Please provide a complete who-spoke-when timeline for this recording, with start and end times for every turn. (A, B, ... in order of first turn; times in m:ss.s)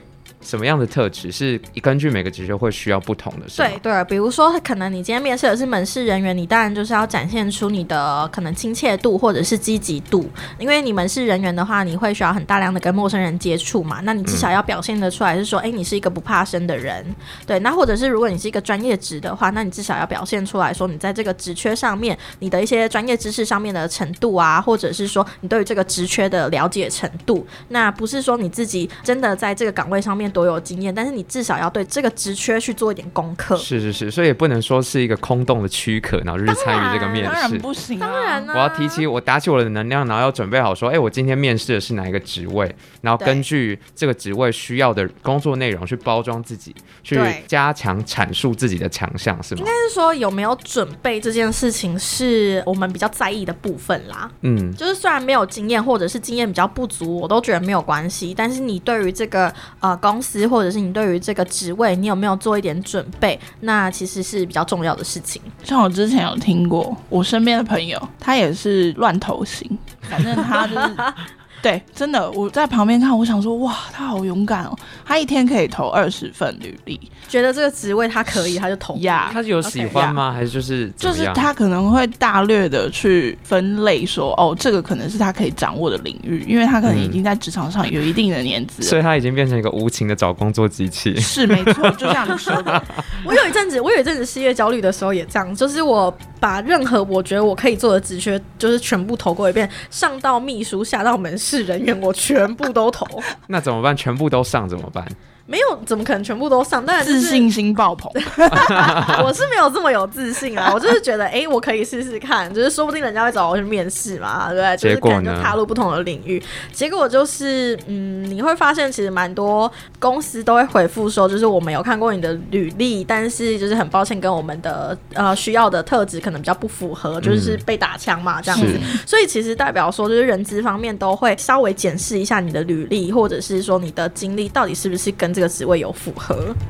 0:00.4-0:03.8 A
0:03.6-0:33.7 B
0:14.2-0:14.5 A
0:33.6-0:37.6 A
0:36.5-0:37.4 B
0:37.2-0:38.5 C
0:38.0-0:39.0 B
0:38.5-0:49.7 A
0:47.1-0:47.4 B
0:49.6-1:05.5 B
0:54.4-0:54.8 A
1:05.6-1:17.1 C
1:10.5-1:11.2 B
1:17.3-1:20.1 B
1:18.9-1:19.4 C
1:19.3-1:21.5 A
1:19.9-1:20.2 C
1:21.0-1:29.0 C
1:26.8-1:27.2 A
1:28.8-1:33.2 A
1:31.2-1:32.9 C
1:32.3-1:43.3 B
1:43.4-1:45.2 A
1:45.5-1:47.5 B
1:47.0-1:49.2 C
1:48.1-2:16.6 B
1:48.5-1:49.2 A
1:54.8-1:55.6 A
2:07.2-2:07.6 A
2:08.5-2:09.0 C
2:08.5-2:08.8 A